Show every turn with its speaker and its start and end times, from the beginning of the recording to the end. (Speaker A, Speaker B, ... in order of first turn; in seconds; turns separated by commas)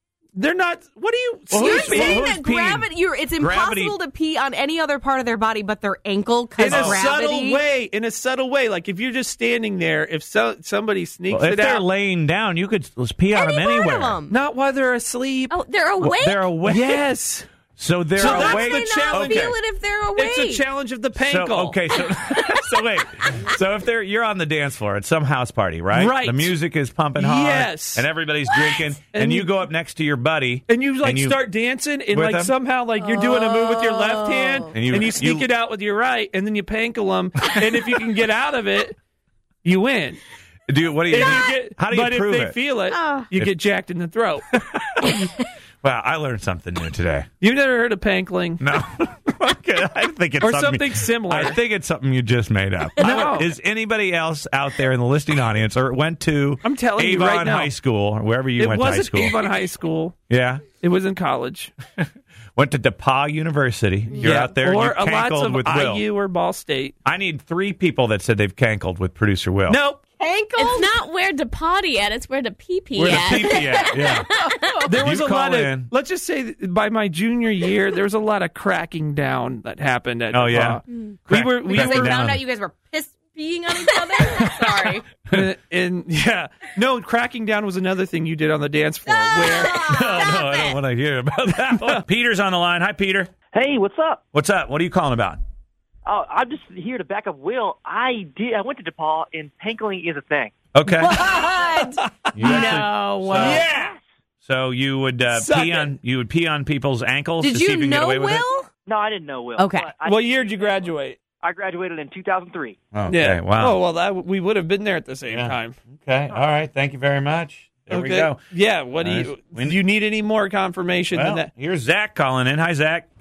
Speaker A: 0.3-2.2, Speaker B: 1.5-4.0, Speaker C: 1.5-7.6, Speaker A: 6.6-11.8, Speaker B: 6.7-7.1, Speaker B: 11.3-14.2, Speaker D: 13.3-13.8, Speaker C: 13.5-14.3, Speaker A: 14.3-15.6, Speaker D: 15.5-16.5, Speaker B: 16.0-17.0, Speaker A: 16.6-17.5, Speaker B: 17.8-19.5, Speaker A: 18.2-19.6, Speaker D: 18.2-20.6, Speaker A: 20.1-21.9, Speaker B: 21.1-31.4, Speaker A: 25.9-26.6, Speaker A: 27.1-28.1, Speaker A: 29.1-29.5, Speaker A: 30.7-39.0, Speaker B: 32.1-32.5, Speaker C: 33.0-34.7, Speaker B: 34.7-35.5, Speaker A: 39.6-40.2, Speaker B: 40.7-42.6, Speaker A: 41.1-44.4, Speaker C: 43.0-43.3, Speaker B: 44.8-45.2, Speaker B: 45.8-47.3, Speaker A: 47.4-48.6, Speaker B: 48.6-59.4, Speaker A: 50.4-51.6, Speaker A: 53.0-53.5, Speaker A: 56.6-57.7, Speaker A: 58.6-60.1, Speaker B: 60.3-60.6, Speaker A: 60.8-61.7, Speaker B: 62.0-66.1, Speaker A: 64.2-66.9, Speaker B: 67.0-69.8, Speaker A: 69.7-70.0, Speaker C: 70.2-71.0, Speaker D: 70.6-74.8, Speaker B: 73.0-74.3, Speaker A: 73.1-73.6, Speaker C: 73.5-75.0, Speaker A: 74.8-82.2, Speaker B: 74.9-75.9, Speaker B: 80.3-82.4, Speaker C: 81.6-85.0, Speaker A: 85.3-89.8, Speaker C: 89.1-90.2, Speaker B: 89.7-93.3, Speaker D: 90.2-90.8, Speaker E: 93.5-94.2, Speaker B: 94.3-95.4, Speaker E: 96.0-100.5, Speaker B: 100.7-101.2, Speaker C: 100.9-103.6, Speaker B: 102.3-103.7, Speaker A: 103.3-104.0, Speaker E: 103.5-104.0, Speaker B: 104.4-108.5, Speaker A: 105.3-105.9, Speaker C: 107.4-108.7, Speaker E: 108.8-110.9, Speaker C: 109.5-109.9, Speaker A: 110.0-111.2, Speaker E: 111.4-112.8, Speaker B: 112.9-113.8, Speaker A: 113.1-115.8, Speaker B: 115.3-118.4, Speaker A: 117.9-121.5, Speaker B: 119.0-119.8, Speaker B: 121.1-123.1